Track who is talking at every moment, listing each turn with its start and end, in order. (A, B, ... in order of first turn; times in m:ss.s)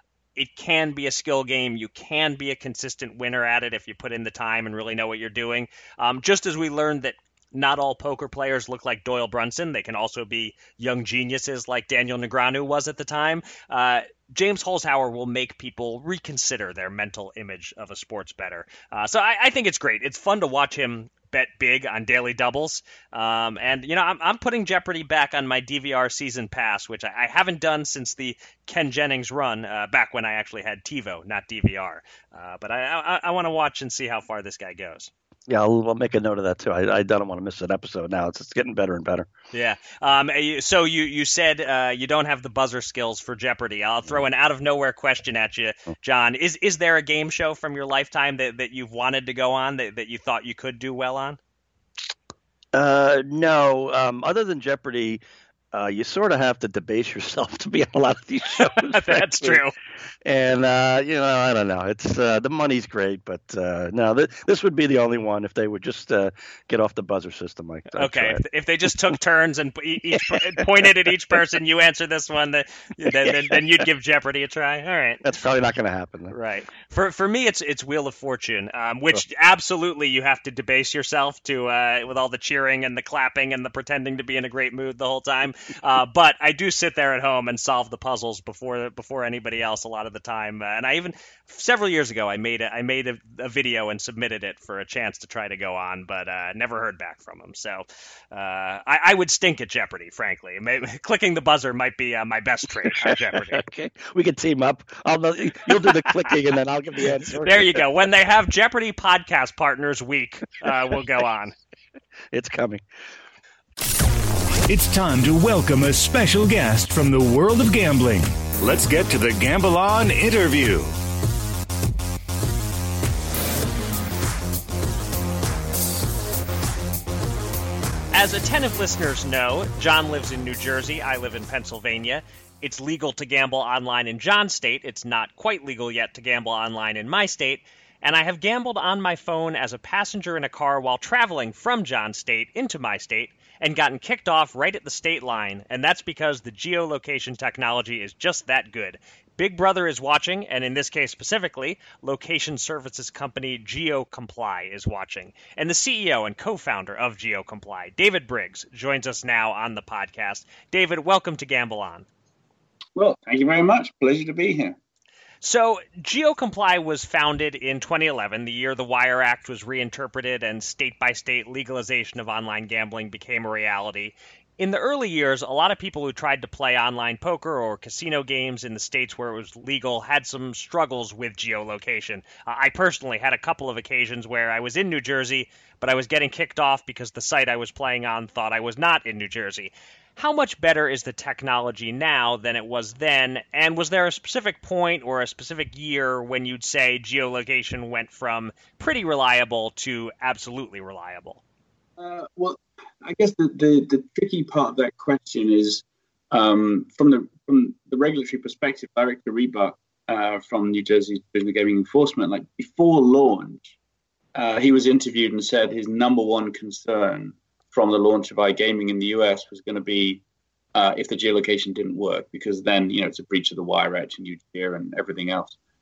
0:00.4-0:35.1 A
0:35.5-0:39.3 B
0:39.5-0:51.4 A
0:52.7-0:55.2 B
0:55.7-0:59.6 B
0:58.6-0:59.7 A
1:00.2-1:08.4 B
1:07.9-1:15.2 A
1:13.0-1:13.6 B
1:15.2-1:16.3 B
1:16.3-1:43.6 A
1:43.0-1:47.8 B
1:47.4-1:51.5 A
1:52.3-1:52.8 B
1:54.7-2:00.9 C
2:08.1-2:42.0 A
2:43.0-2:44.8 D
2:45.4-3:21.4 A
3:22.0-3:33.7 D
3:34.3-3:40.2 D
3:40.7-3:45.5 D